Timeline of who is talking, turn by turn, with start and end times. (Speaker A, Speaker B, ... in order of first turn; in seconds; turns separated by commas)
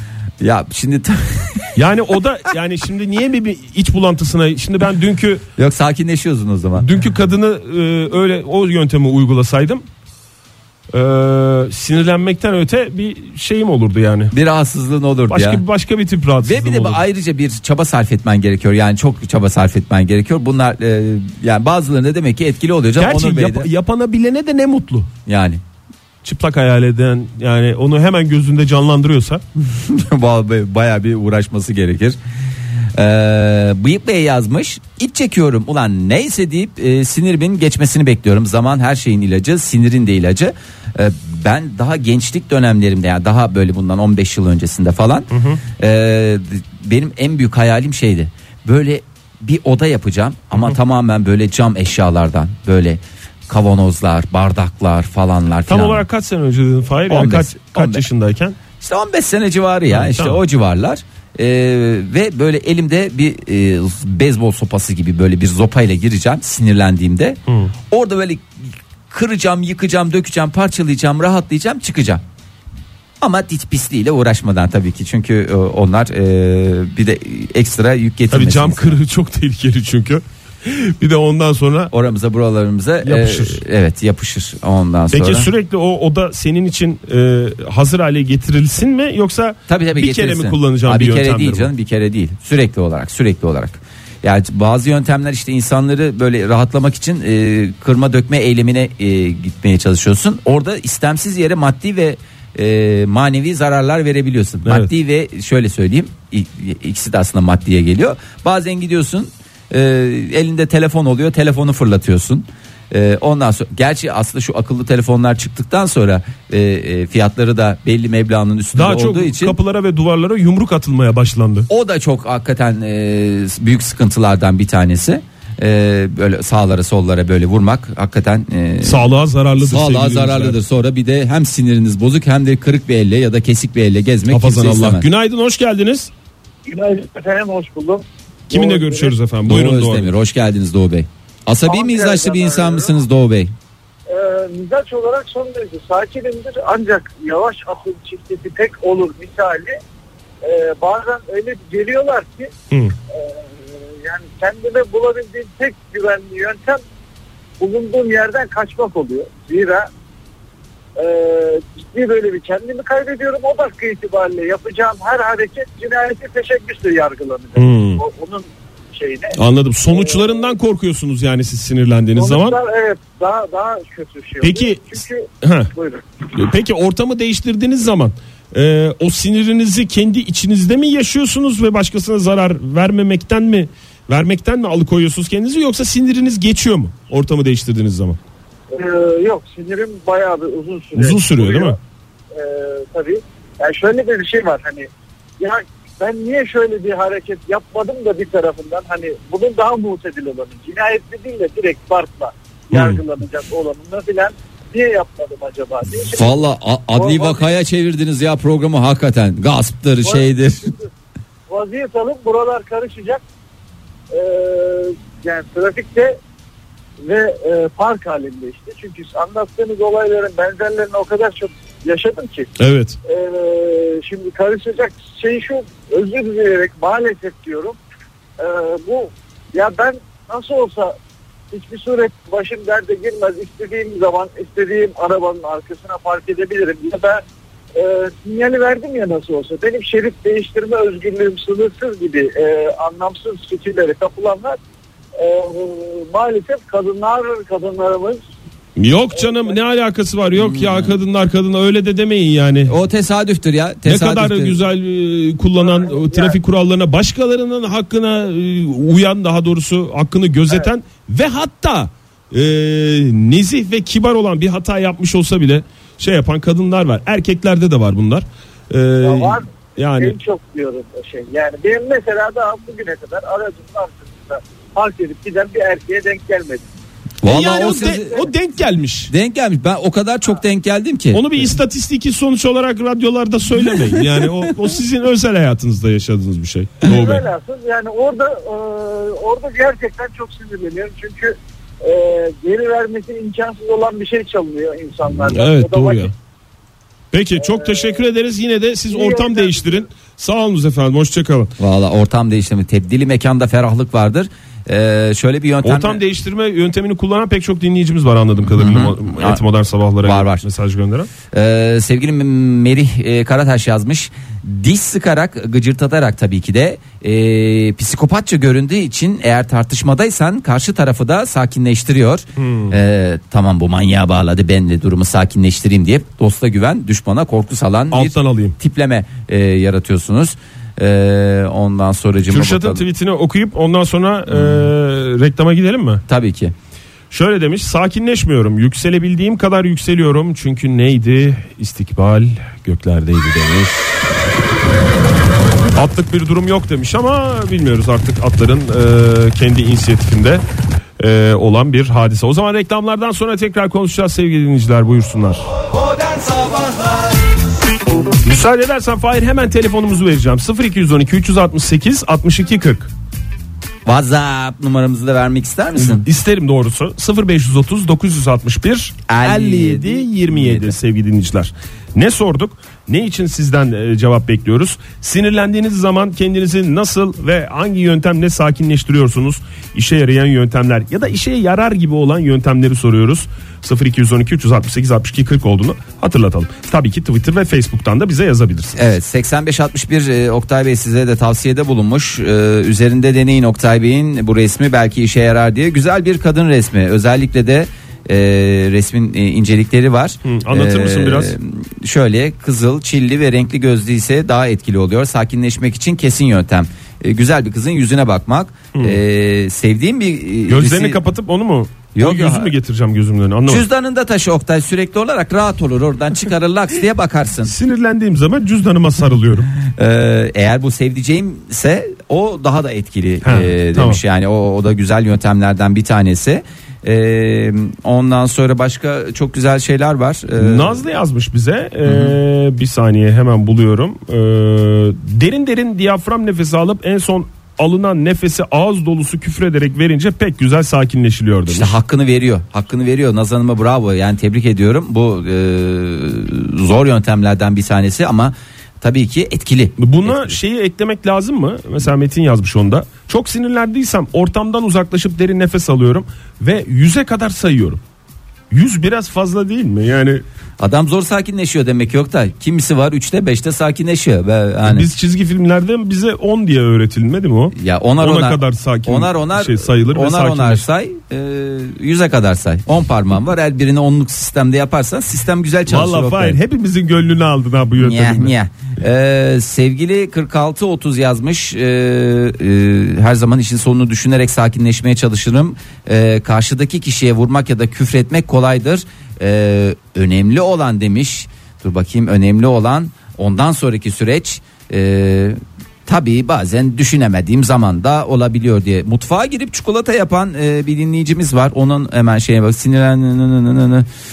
Speaker A: 0.4-1.8, Speaker B: 1.8-5.4, Speaker A: 5.6-6.9, Speaker B: 6.8-9.8, Speaker B: 10.9-14.3, Speaker A: 14.3-15.6, Speaker B: 15.3-17.0, Speaker A: 16.4-23.7, Speaker B: 23.0-25.1, Speaker A: 25.2-25.6, Speaker B: 26.2-29.4, Speaker A: 29.6-32.2, Speaker A: 32.9-56.0, Speaker B: 45.3-45.6, Speaker B: 55.7-58.6, Speaker A: 57.1-58.0, Speaker A: 58.8-67.4, Speaker B: 59.9-60.4, Speaker B: 67.5-67.7, Speaker A: 67.9-72.2, Speaker A: 73.2-79.0, Speaker B: 78.3-81.9, Speaker A: 81.9-85.5, Speaker B: 83.0-83.6, Speaker B: 85.1-91.7, Speaker A: 89.7-119.5, Speaker B: 104.6-104.9, Speaker B: 118.8-121.7, Speaker A: 121.7-135.1, Speaker B: 128.8-130.6, Speaker B: 134.3-136.1, Speaker C: 136.7-139.1, Speaker B: 138.5-140.1, Speaker A: 139.4-143.5, Speaker C: 141.7-142.9, Speaker C: 144.1-149.8, Speaker C: 150.4-152.5, Speaker C: 153.1-156.8, Speaker C: 157.6-159.9, Speaker C: 160.9-170.5, Speaker B: 167.6-168.0, Speaker B: 169.3-172.6, Speaker C: 172.2-176.0, Speaker B: 174.4-175.7, Speaker B: 176.3-188.2, Speaker C: 188.7-191.8, Speaker B: 190.9-191.8, Speaker C: 192.3-194.9, Speaker C: 195.4-206.3, Speaker B: 202.7-203.0, Speaker A: 205.9-210.7, Speaker C: 206.9-207.5, Speaker C: 210.0-210.9, Speaker C: 211.5-213.2, Speaker C: 214.1-216.2, Speaker C: 217.0-222.5, Speaker B: 222.6-223.0, Speaker C: 223.1-227.8, Speaker C: 228.4-230.9, Speaker C: 231.5-237.2, Speaker C: 237.7-244.6, Speaker C: 245.1-248.2, Speaker B: 248.8-252.7, Speaker C: 249.1-249.5, Speaker A: 250.3-250.9, Speaker A: 252.7-254.6, Speaker B: 253.8-270.1, Speaker C: 255.6-256.4, Speaker C: 269.0-276.6, Speaker A: 277.2-278.3, Speaker B: 277.2-279.1, Speaker A: 279.1-281.5, Speaker B: 281.1-287.2, Speaker A: 283.9-284.2, Speaker C: 286.8-296.1, Speaker B: 295.2-296.1, Speaker B: 297.1-301.5, Speaker C: 297.4-298.0, Speaker C: 298.9-299.9, Speaker A: 301.6-306.0, Speaker B: 305.6-311.1, Speaker A: 308.5-309.4, Speaker A: 310.0-310.4, Speaker A: 311.3-332.9, Speaker B: 322.4-322.8, Speaker B: 327.9-328.6, Speaker B: 332.2-336.0, Speaker A: 334.3-334.7, Speaker A: 336.1-336.5, Speaker B: 337.1-344.1, Speaker B: 345.7-350.4, Speaker B: 351.0-355.5, Speaker A: 355.7-357.1, Speaker B: 358.2-362.9, Speaker A: 363.9-366.1, Speaker B: 365.8-388.8, Speaker A: 369.1-370.7, Speaker A: 388.8-411.0, Speaker B: 400.2-401.4, Speaker B: 410.5-413.6, Speaker A: 411.9-412.5, Speaker A: 413.5-417.5, Speaker B: 417.4-419.5, Speaker A: 419.7-430.8, Speaker B: 423.2-424.0, Speaker B: 430.4-441.7, Speaker A: 431.9-432.1, Speaker A: 441.5-450.4, Speaker B: 449.8-457.8, Speaker B: 458.5-460.2, Speaker A: 460.6-464.9, Speaker B: 464.6-470.6, Speaker A: 467.5-476.4, Speaker B: 475.7-478.3, Speaker A: 477.8-503.9